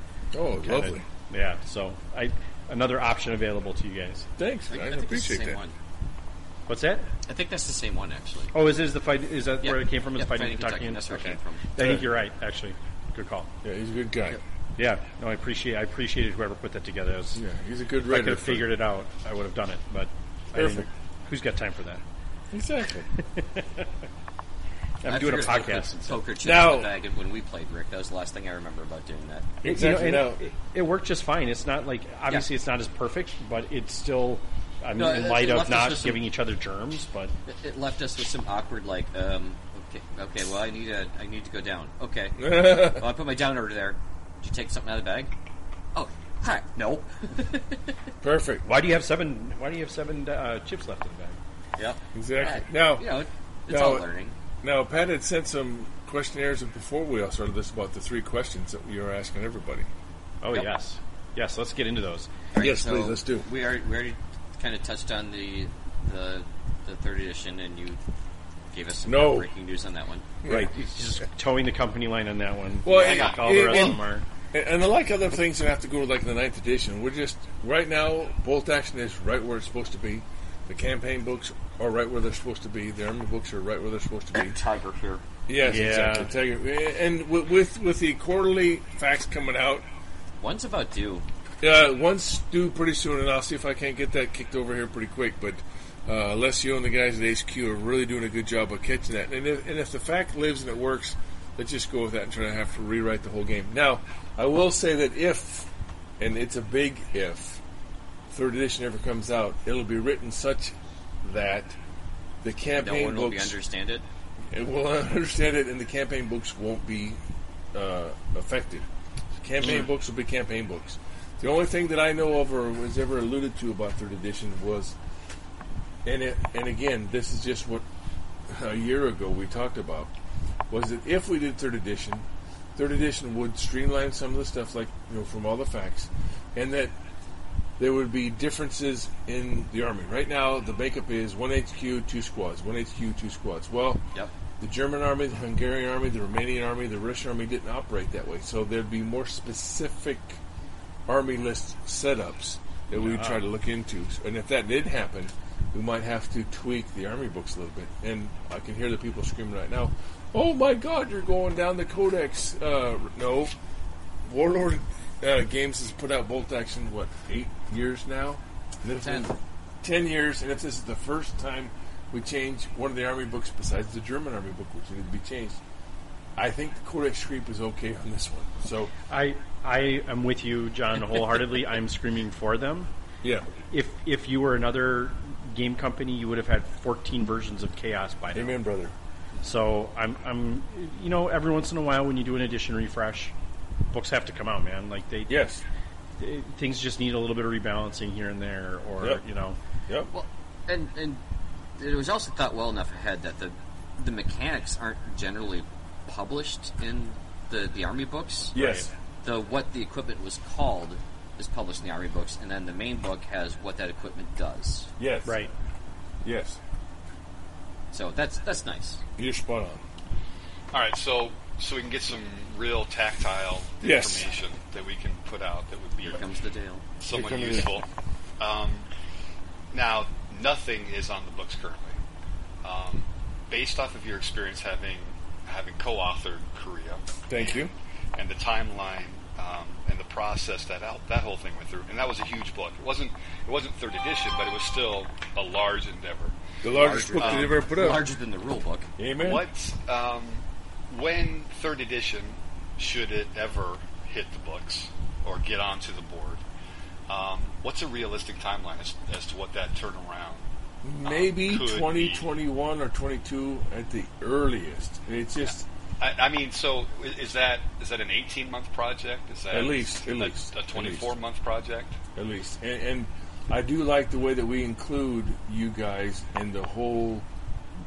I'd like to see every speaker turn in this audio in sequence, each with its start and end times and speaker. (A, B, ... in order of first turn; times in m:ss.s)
0:00.3-0:01.0 A
0:00.6-0:04.3 B
0:04.4-0:05.6 A
0:04.7-0:05.8 C
0:06.7-0:07.1 B
0:07.3-0:08.5 C
0:08.5-0:13.5 B
0:09.6-0:11.7 C
0:11.8-0:12.0 A
0:13.6-0:14.4 A
0:14.8-0:17.4 B
0:17.4-0:18.7 A
0:18.1-0:22.0 B
0:20.5-0:20.9 A
0:22.5-0:23.1 A
0:23.2-0:23.9 B
0:25.0-0:26.2 B
0:25.0-0:29.6 C
0:26.4-0:26.9 A
0:29.6-0:30.4 A
0:29.6-0:37.3 B
0:35.0-0:36.2 C
0:37.5-0:45.3 C
0:42.4-0:43.1 A
0:45.9-0:48.0 C
0:48.2-0:48.7 A
0:48.6-0:51.4 B
0:51.8-0:54.4 C
0:52.2-0:53.1 A
0:53.7-0:54.1 A
0:54.6-0:59.9 A
1:00.4-1:02.3 B
1:02.5-1:08.0 C
1:02.6-1:03.5 A
1:08.7-1:10.3 C
1:09.0-1:09.5 A
1:10.4-1:10.7 A
1:10.4-1:14.2 B
1:12.8-1:24.6 A
1:12.9-1:13.9 C
1:13.1-1:13.4 D
1:24.3-1:25.2 C
1:25.5-1:29.8 A
1:25.6-1:26.3 B
1:30.4-1:31.2 C
1:31.6-1:47.6 A
1:48.3-1:51.8 A
1:52.4-1:53.6 A
1:52.8-1:54.0 C
1:54.5-1:57.2 A
1:57.7-1:58.9 A
1:59.4-2:05.0 A
2:06.0-2:07.8 A
2:08.5-2:10.1 A
2:10.7-2:16.9 A
2:17.8-2:24.0 A
2:24.6-2:30.4 A
2:31.1-2:43.5 A
2:33.0-2:33.4 B
2:44.2-2:55.6 A
2:49.0-2:49.3 C
2:56.4-2:58.9 A
2:59.1-3:02.9 B
3:03.7-3:08.6 B
3:08.3-3:09.0 A
3:09.4-3:13.3 B
3:13.9-3:15.4 B
3:15.3-3:15.6 A
3:16.2-3:19.6 B
3:20.1-3:21.2 C
3:21.8-3:28.6 C
3:28.5-3:28.9 B
3:28.5-3:28.9 A
3:29.2-3:34.9 C
3:35.0-3:35.4 A
3:36.2-3:36.6 A
3:37.9-3:39.0 C
3:39.2-3:39.8 A
3:40.7-3:46.2 D
3:43.8-3:44.3 A
3:46.0-3:46.8 C
3:47.0-3:47.8 D
3:47.1-3:47.8 A
3:48.4-3:48.9 D
3:49.7-3:52.0 D
3:52.6-4:06.4 D
3:57.3-3:57.7 A
4:06.6-4:08.1 A
4:06.7-4:08.9 C
4:07.2-4:07.5 D
4:09.0-4:09.5 A
4:09.2-4:16.4 D
4:17.1-4:20.4 D
4:20.8-4:25.6 A
4:21.0-4:22.3 D
4:26.0-4:32.0 D
4:29.5-4:31.2 A
4:32.2-4:37.3 A